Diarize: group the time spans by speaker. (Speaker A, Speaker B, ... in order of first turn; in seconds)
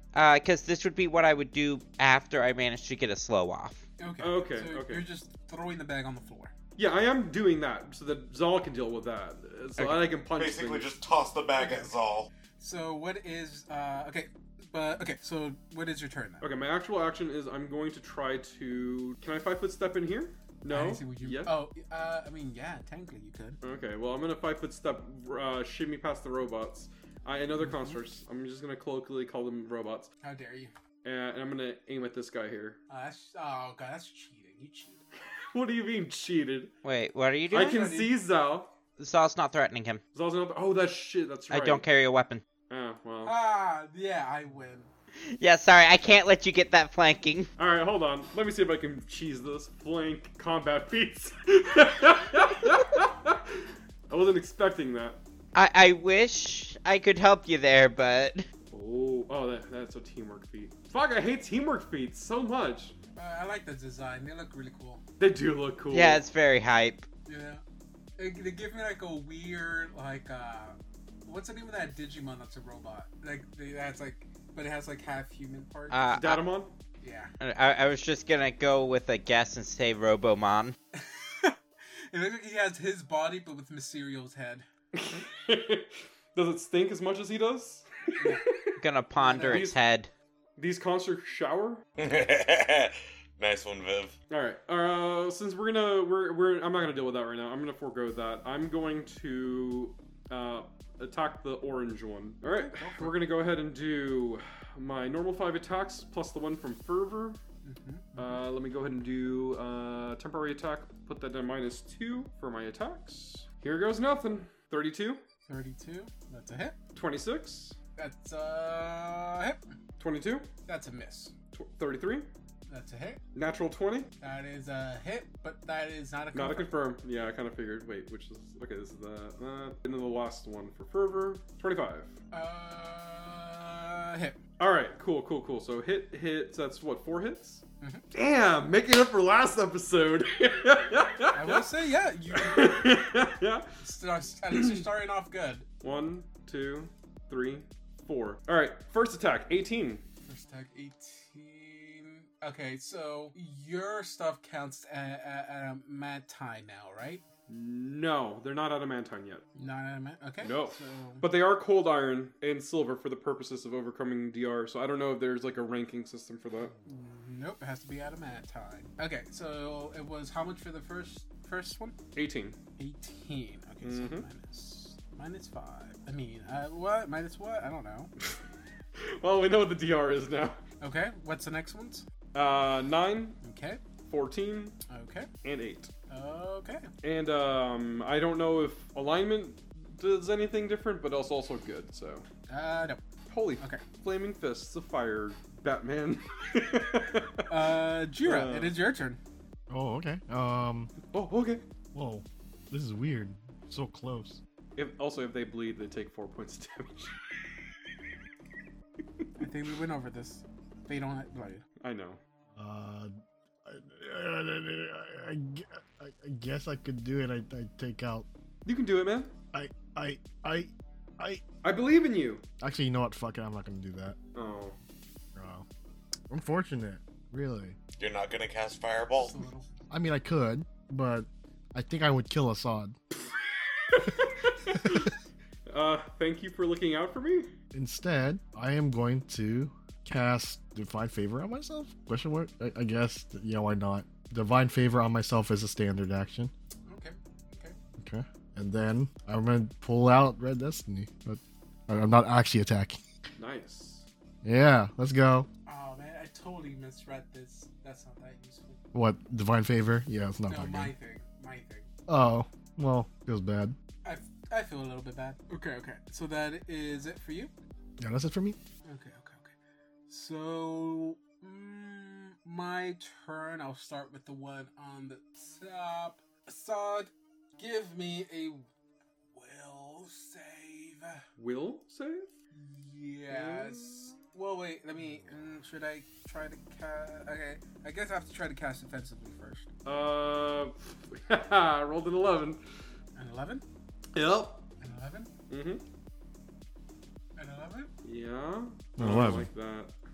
Speaker A: 0.1-3.8, 36.9-37.8, 39.0-40.0, 41.5-42.4, 45.3-47.5, 55.5-58.4, 65.9-67.0, 75.9-76.5, 77.4-80.8, 88.8-90.1
Speaker B: 4.0-6.5, 11.6-11.9, 12.6-16.4, 20.7-23.6, 27.6-28.0, 30.2-30.7, 32.9-35.0, 37.5-38.1, 43.2-44.9, 63.1-65.0, 67.3-67.6, 68.2-76.0, 77.0-77.3, 80.9-81.6, 82.1-84.7, 88.2-88.4, 89.2-89.7, 102.5-103.1, 107.6-108.5, 115.5-116.8, 118.0-119.6, 120.7-121.3, 122.7-123.2, 124.2-126.8, 132.3-134.4, 141.3-143.0, 143.8-145.7, 150.3-157.2, 159.6-161.3, 166.8-171.9, 172.8-178.1, 180.8-182.1, 183.4-183.8, 184.9-185.3, 186.1-186.9, 192.5-193.0, 197.5-199.2, 209.4-211.6, 229.2-229.7, 246.9-247.8, 255.7-258.8, 260.5-261.9, 264.0-267.5, 268.9-269.5, 270.1-278.7, 279.3-281.2, 282.5-289.7, 293.2-293.6, 294.8-295.3, 297.4-297.9
Speaker C: 4.2-5.0, 6.8-10.9, 16.4-21.5, 23.6-30.1, 31.0-32.8, 35.5-36.7, 37.5-38.7, 40.1-41.9, 42.7-43.3, 47.6-55.2, 58.7-62.9, 65.2-66.2, 76.1-76.7, 84.9-88.8, 89.3-89.8, 90.6-91.8, 94.3-107.4, 108.2-115.2, 117.0-117.8, 120.0-120.5, 121.5-122.3, 123.3-124.1, 126.3-132.1, 134.6-137.6, 138.1-141.7, 142.3-143.7, 144.5-144.8, 145.8-150.0, 157.5-159.4, 160.4-166.7, 172.1-172.6, 173.8-174.3, 179.0-180.6, 182.3-183.4, 184.1-184.8, 185.4-185.9, 187.0-192.2, 193.3-197.4, 198.2-198.7, 201.1-201.6, 204.8-207.2, 211.8-212.2, 218.7-219.3, 221.6-222.4, 224.3-224.7, 233.8-235.1, 235.7-237.5, 253.4-254.1, 281.4-282.3, 283.3-284.1, 289.8-292.6, 294.1-294.6, 295.5-295.8, 298.0-299.9
Speaker D: 10.3-12.3, 92.0-94.2, 228.0-229.4
Speaker E: 199.7-200.9, 201.9-204.4, 212.6-213.1, 213.7-218.3, 219.5-221.4, 222.6-224.2, 225.4-225.6, 226.3-227.8, 229.9-232.9, 237.7-246.5, 248.0-253.0, 254.4-255.5, 258.9-260.9, 262.1-263.7, 268.0-268.6, 299.0-299.5